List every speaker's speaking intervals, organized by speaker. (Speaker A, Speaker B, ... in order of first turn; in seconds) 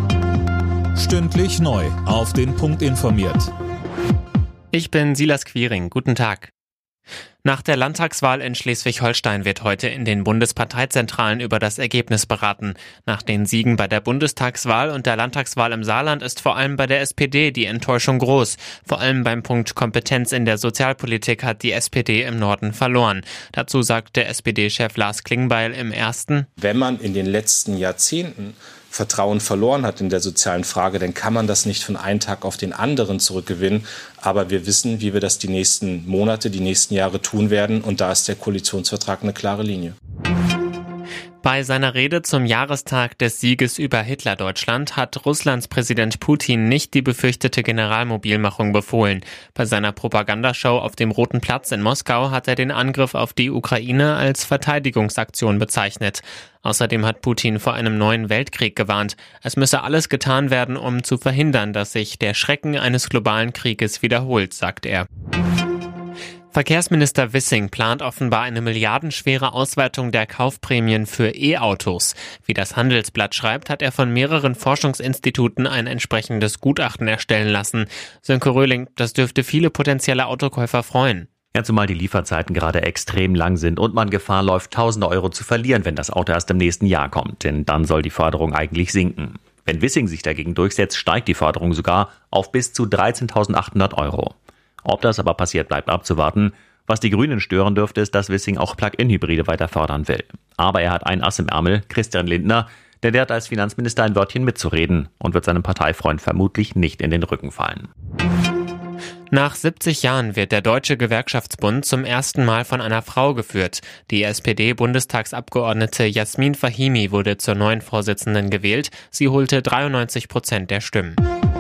Speaker A: 0.9-3.5
Speaker B: 4.7-6.5, 7.4-26.5, 41.4-65.1, 66.5-81.3, 109.3-121.2
Speaker C: 26.6-40.0
Speaker D: 81.5-107.9